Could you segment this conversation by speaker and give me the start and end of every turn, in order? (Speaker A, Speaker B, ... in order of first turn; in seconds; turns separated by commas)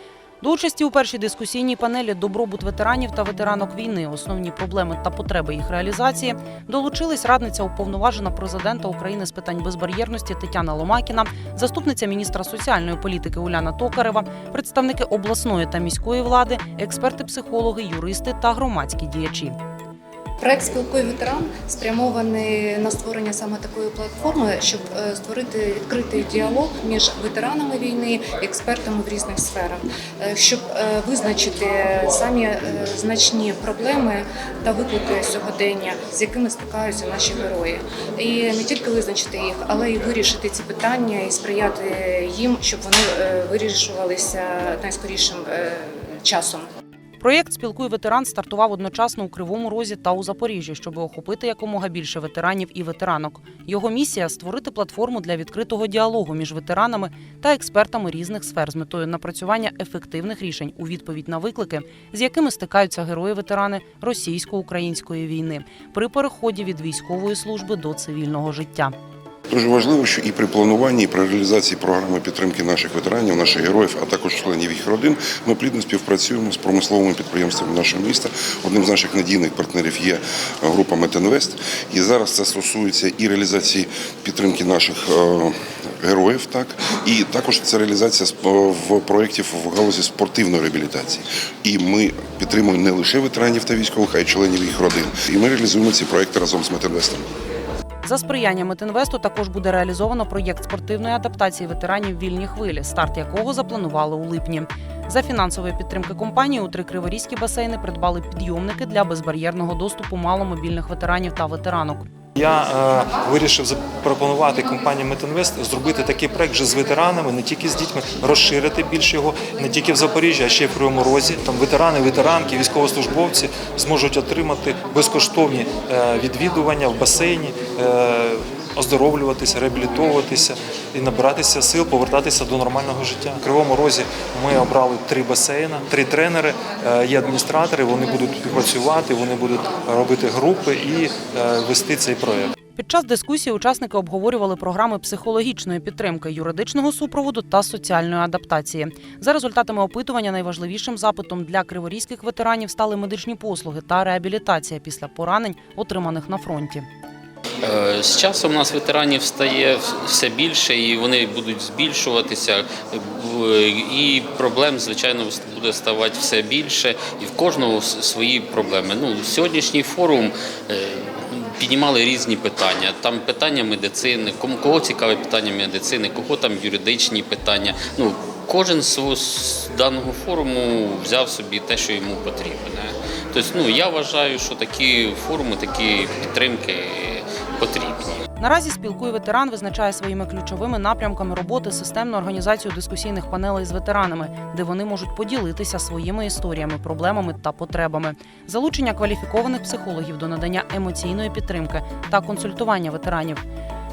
Speaker A: 0.4-19.6, Speaker B: 20.4-46.7, Speaker A: 47.2-68.9, Speaker C: 69.5-97.3, Speaker A: 98.0-112.0, Speaker D: 112.3-142.5, Speaker A: 142.8-156.9, Speaker E: 157.6-188.1, Speaker A: 188.4-203.4